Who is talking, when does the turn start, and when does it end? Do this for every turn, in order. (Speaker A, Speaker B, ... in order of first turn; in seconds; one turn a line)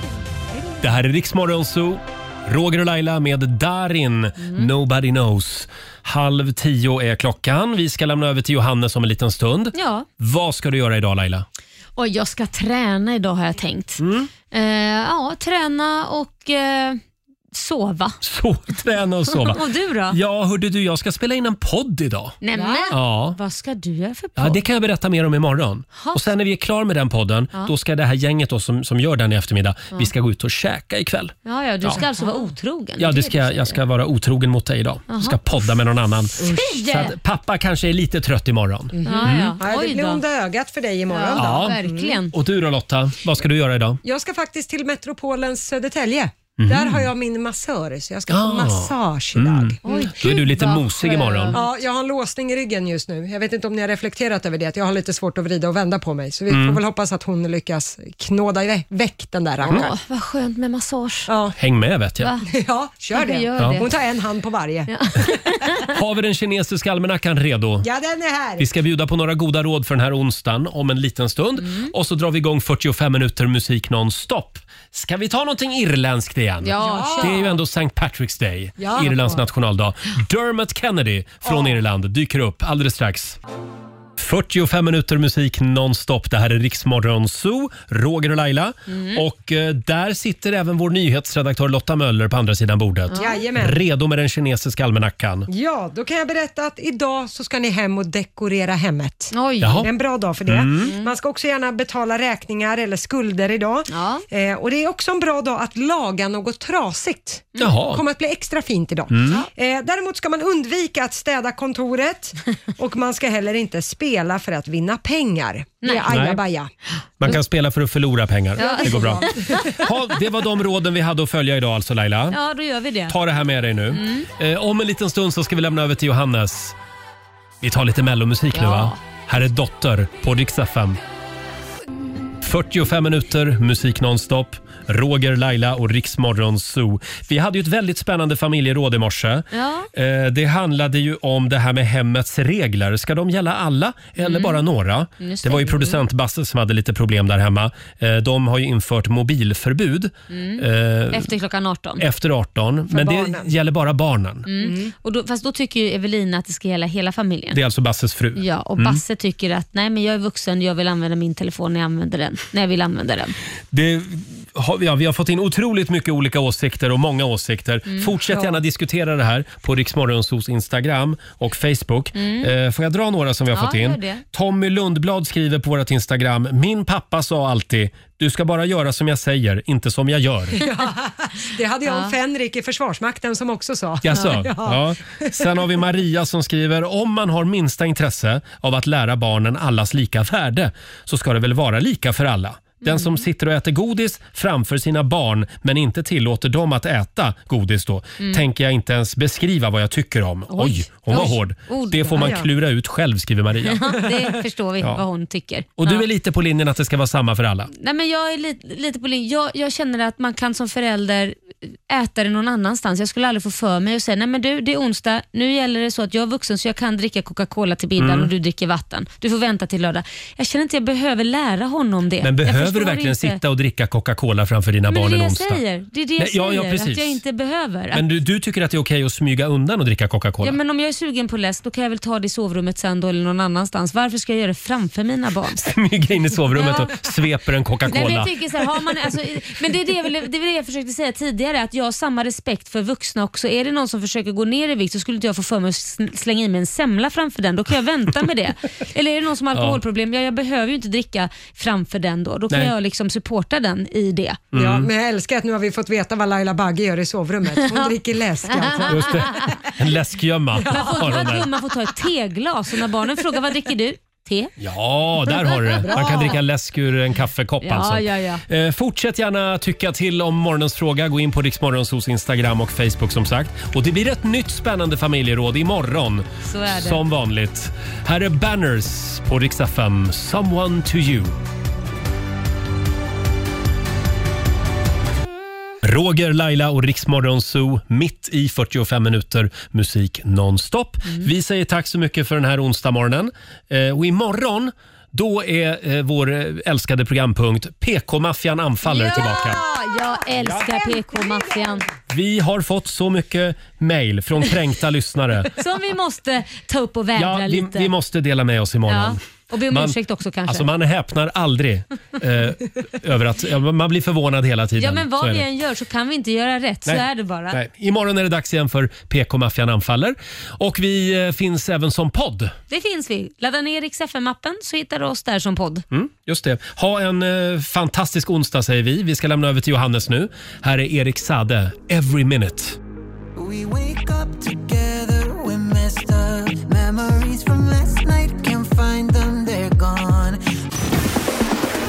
Speaker A: 0.8-11.5
Speaker B: 4.4-4.7
Speaker B: 9.7-10.1
Speaker B: 12.0-17.0
Speaker A: 14.0-14.3
Speaker B: 17.5-18.2
Speaker A: 18.2-22.4
Speaker B: 19.3-20.2
Speaker B: 22.4-24.6
Speaker C: 22.5-23.0
Speaker A: 22.9-23.4
Speaker A: 24.4-32.1
Speaker B: 26.0-26.2
Speaker B: 31.4-33.8
Speaker A: 33.0-39.5
Speaker B: 35.1-35.4
Speaker B: 36.5-37.2
Speaker B: 39.0-40.2
Speaker C: 39.0-42.2
Speaker B: 41.1-42.3
Speaker A: 41.3-41.8
Speaker A: 42.3-44.0
Speaker C: 44.0-50.3
Speaker A: 46.6-47.1
Speaker A: 48.3-51.6
Speaker B: 49.9-51.7
Speaker C: 51.5-60.0
Speaker A: 56.5-56.8
Speaker B: 59.7-61.3
Speaker C: 61.3-61.6
Speaker A: 61.6-62.3
Speaker B: 62.2-62.5
Speaker C: 62.5-65.3
Speaker B: 63.1-64.0
Speaker B: 64.9-65.9
Speaker A: 65.9-67.9
Speaker C: 67.8-68.7
Speaker A: 68.6-83.4
Speaker B: 71.6-71.9
Speaker B: 76.6-77.5
Speaker C: 76.8-77.5
Speaker C: 78.8-79.4
Speaker C: 81.5-81.8
Speaker A: 84.2-95.5
Speaker B: 88.9-89.2
Speaker B: 93.1-93.4
Speaker C: 93.1-93.8
Speaker C: 95.5-116.7
Speaker B: 99.3-99.9
Speaker A: 99.6-99.9
Speaker A: 100.5-100.9
Speaker B: 100.8-101.1
Speaker B: 103.9-104.2
Speaker A: 107.6-108.0
Speaker A: 109.1-109.4
Speaker B: 115.8-116.1
Speaker A: 116.1-116.4
Speaker A: 117.2-122.4
Speaker C: 118.6-119.8
Speaker B: 118.6-119.8
Speaker B: 122.3-123.2
Speaker A: 123.1-126.8
Speaker B: 123.9-124.3
Speaker A: 127.6-131.0
Speaker B: 128.5-129.0
Speaker A: 132.4-151.3
Speaker B: 139.5-139.9
Speaker B: 144.2-144.6
Speaker B: 145.2-146.0
Speaker B: 150.3-152.0
Speaker A: 152.0-154.5
Speaker C: 152.9-153.5
Speaker B: 154.5-157.6
Speaker C: 154.6-154.9
Speaker A: 157.5-159.0
Speaker B: 158.4-163.4
Speaker A: 163.7-180.6
Speaker C: 168.3-168.6
Speaker B: 172.2-172.5
Speaker B: 173.5-174.2
Speaker C: 180.6-185.6
Speaker B: 181.9-182.1
Speaker A: 184.0-204.1
Speaker B: 192.8-193.2
Speaker B: 200.5-202.4
Speaker C: 202.0-202.5
Speaker B: 203.6-206.1
Speaker A: 205.8-207.7
Speaker B: 207.7-223.4
Speaker A: 218.0-218.3
Speaker A: 222.2-225.6
Speaker B: 224.9-228.1
Speaker A: 226.2-227.2
Speaker A: 227.9-230.6
Speaker B: 230.4-235.7
Speaker A: 235.6-238.3
Speaker B: 236.5-236.9
Speaker B: 237.9-254.4
Speaker A: 249.5-249.8
Speaker A: 254.5-254.9
Speaker C: 254.6-259.7
Speaker B: 258.7-259.5
Speaker A: 258.9-261.5
Speaker C: 260.6-261.5
Speaker B: 260.7-264.6
Speaker A: 264.6-281.4
Speaker B: 265.3-266.3
Speaker C: 265.8-266.4
Speaker B: 267.6-268.4
Speaker B: 276.4-277.0
Speaker A: 285.8-299.6
Speaker B: 298.9-301.9
Speaker A: 300.4-300.7
Speaker C: 300.7-301.8
Speaker A: 302.1-305.5
Speaker B: 305.6-307.9
Speaker A: 307.2-310.0
Speaker B: 308.9-310.7
Speaker A: 310.5-315.4
Speaker B: 314.8-317.6
Speaker A: 316.9-322.6
Speaker B: 322.7-325.8
Speaker A: 325.9-332.8
Speaker D: 333.4-340.4